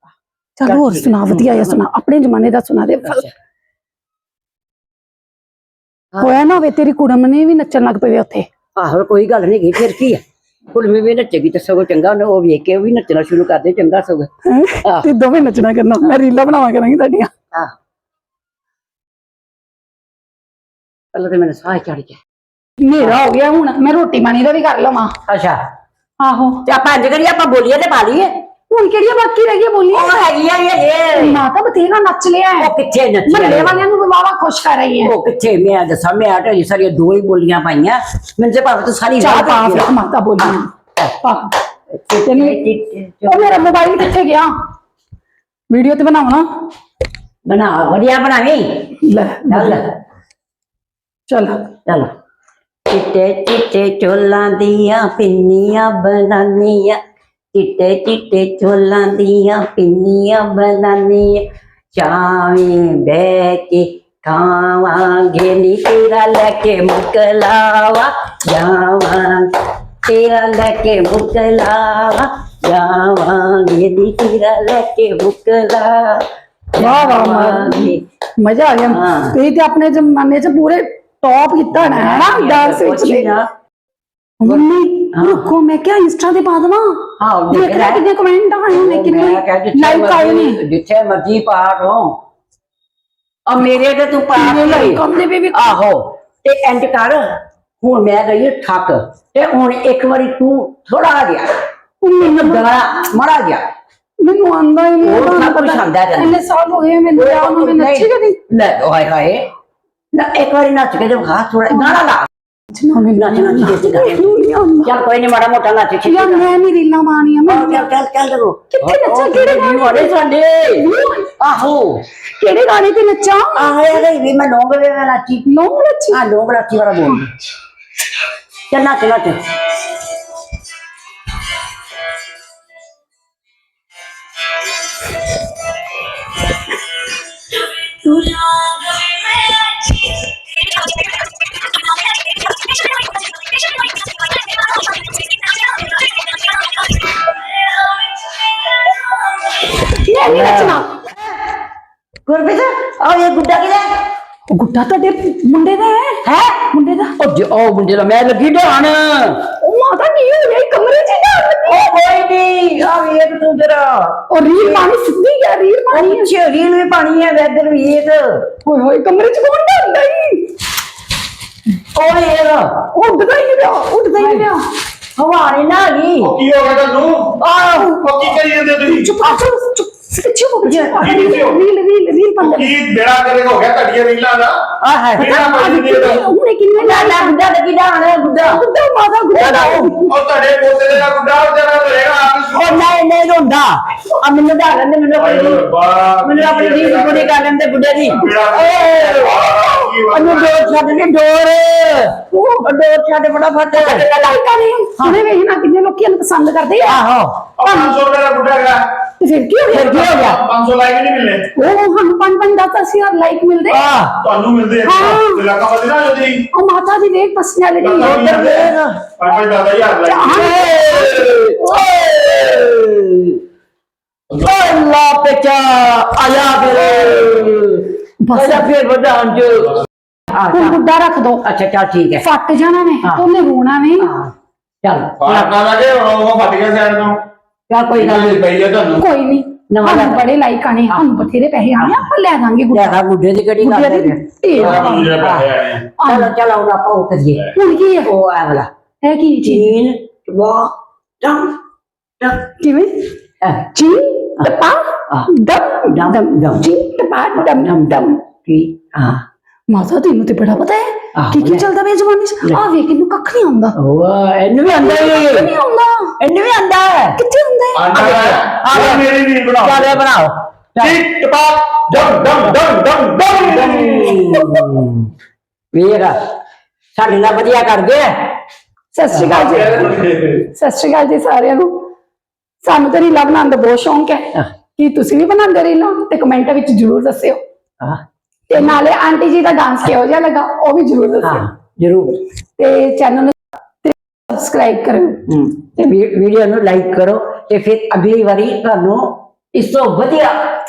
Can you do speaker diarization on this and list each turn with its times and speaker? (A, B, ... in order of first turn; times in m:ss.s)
0:00.6-0:03.3 A
0:00.6-0:01.8 B
0:03.0-0:03.3 B
0:06.1-0:06.5 B
0:06.2-0:08.5 A
0:08.8-0:10.2 B
0:10.7-0:14.3 B
0:14.4-0:17.3 A
0:16.0-0:16.3 B
0:21.1-0:22.2 B
0:22.8-0:25.1 A
0:25.3-0:25.6 B
0:26.2-0:26.6 A
0:26.6-0:28.3 B
0:28.7-0:30.1 A
0:29.9-0:31.4 B
0:31.1-0:32.7 A
0:32.6-0:33.8 B
0:33.2-0:35.1 A
0:35.0-0:39.9 B
0:39.2-0:40.7 A
0:40.4-0:41.1 B
0:41.2-0:41.5 A
0:41.9-0:44.1 B
0:42.2-0:42.6 A
0:43.2-0:44.5 A
0:45.7-0:46.4 A
0:47.4-0:48.6 B
0:49.0-0:49.8 A
0:49.5-0:49.8 B
0:51.3-0:51.7 A
0:52.9-0:57.0 B
0:57.5-1:01.4 B
1:01.9-1:09.5 B
1:10.0-1:18.0 B
1:16.8-1:23.3 A
1:18.9-1:19.4 B
1:21.7-1:23.5 B
1:24.4-1:30.6 A
1:24.4-1:25.4 B
1:27.2-1:28.0 B
1:28.7-1:32.2 B
1:33.5-1:37.2 B
1:34.3-1:35.7 A
1:37.8-1:41.5 B
1:42.0-1:42.7 A
1:42.2-1:43.6 B
1:44.2-1:48.4 A
1:45.0-1:46.4 B
1:47.1-1:49.5 B
1:50.1-1:52.3 B
1:51.7-1:52.0 A
1:52.7-1:54.9 A
1:53.1-1:56.5 B
1:56.0-1:57.9 A
1:57.5-2:00.9 B
1:58.7-2:00.1 A
2:00.7-2:01.3 A
2:01.4-2:02.0 B
2:02.4-2:04.0 A
2:03.5-2:05.5 B
2:05.5-2:06.2 A
2:06.1-2:07.3 B
2:08.7-2:09.4 B
2:17.7-2:20.2 B
2:27.2-2:29.6 B
2:29.8-2:30.9 A
2:30.2-2:31.0 B
2:32.3-2:33.9 B
2:34.5-2:37.2 A
2:36.2-2:36.5 B
2:37.2-2:39.3 B
2:39.6-2:41.8 A
2:41.6-2:44.8 B
2:44.3-2:46.3 A
2:45.9-2:48.2 B
2:48.6-2:50.5 A
2:51.9-2:52.7 B
2:52.9-2:54.6 A
2:54.2-2:54.5 B
2:55.2-2:56.4 B
2:56.2-2:57.4 C
2:57.4-2:57.9 B
2:57.7-2:58.0 A
2:58.0-2:59.1 C
2:58.8-3:02.7 A
3:00.6-3:01.1 B
3:01.0-3:01.6 C
3:02.4-3:04.6 C
3:04.8-3:05.4 B
3:05.2-3:06.2 C
3:05.2-3:07.3 A
3:06.7-3:08.6 B
3:08.4-3:10.1 A
3:09.3-3:09.9 B
3:10.0-3:12.8 C
3:12.5-3:15.7 B
3:15.1-3:17.3 C
3:16.2-3:24.1 B
3:18.1-3:20.8 C
3:19.2-3:20.0 A
3:22.3-3:22.7 A
3:23.8-3:27.0 A
3:26.8-3:27.4 B
3:27.6-3:28.8 C
3:27.6-3:28.0 A
3:29.2-3:30.2 A
3:29.7-3:30.4 B
3:30.2-3:31.5 C
3:31.5-3:33.8 A
3:33.7-3:34.2 B
3:34.2-3:36.4 C
3:34.8-3:35.5 A
3:36.5-3:38.4 A
3:37.8-3:40.4 C
3:38.0-3:39.1 B
3:40.0-3:41.9 A
3:40.2-3:43.4 B
3:44.3-3:50.8 B
3:48.2-3:48.7 A
3:50.5-3:51.4 A
3:51.4-3:52.2 B
3:52.2-3:54.1 A
3:54.0-3:55.6 B
3:55.2-3:57.2 C
3:57.7-3:58.5 B
3:58.0-3:59.0 C
3:58.9-4:03.0 A
3:59.7-4:00.3 B
4:01.8-4:02.1 B
4:02.7-4:07.5 B
4:03.6-4:05.2 A
4:04.6-4:05.8 C
4:06.0-4:06.3 A
4:07.5-4:08.1 A
4:08.0-4:08.7 B
4:09.0-4:09.8 A
4:09.4-4:11.6 B
4:12.2-4:12.4 B
4:12.6-4:12.9 A
4:13.4-4:13.7 B
4:13.7-4:18.2 A
4:15.9-4:16.7 B
4:17.4-4:19.2 B
4:19.7-4:23.8 A
4:21.2-4:21.7 B
4:23.8-4:25.5 B
4:24.8-4:26.1 A
4:26.2-4:27.2 B
4:27.2-4:27.9 A
4:27.8-4:30.0 C
4:27.9-4:31.0 B
4:30.8-4:34.1 C
4:32.5-4:35.1 B
4:33.6-4:34.4 A
4:35.7-4:36.1 B
4:37.0-4:38.1 B
4:38.9-4:41.9 A
4:39.4-4:40.4 C
4:42.6-4:47.4 A
4:48.5-4:51.4 A
4:51.2-4:52.2 B
4:52.6-4:55.2 A
4:55.3-5:00.3 B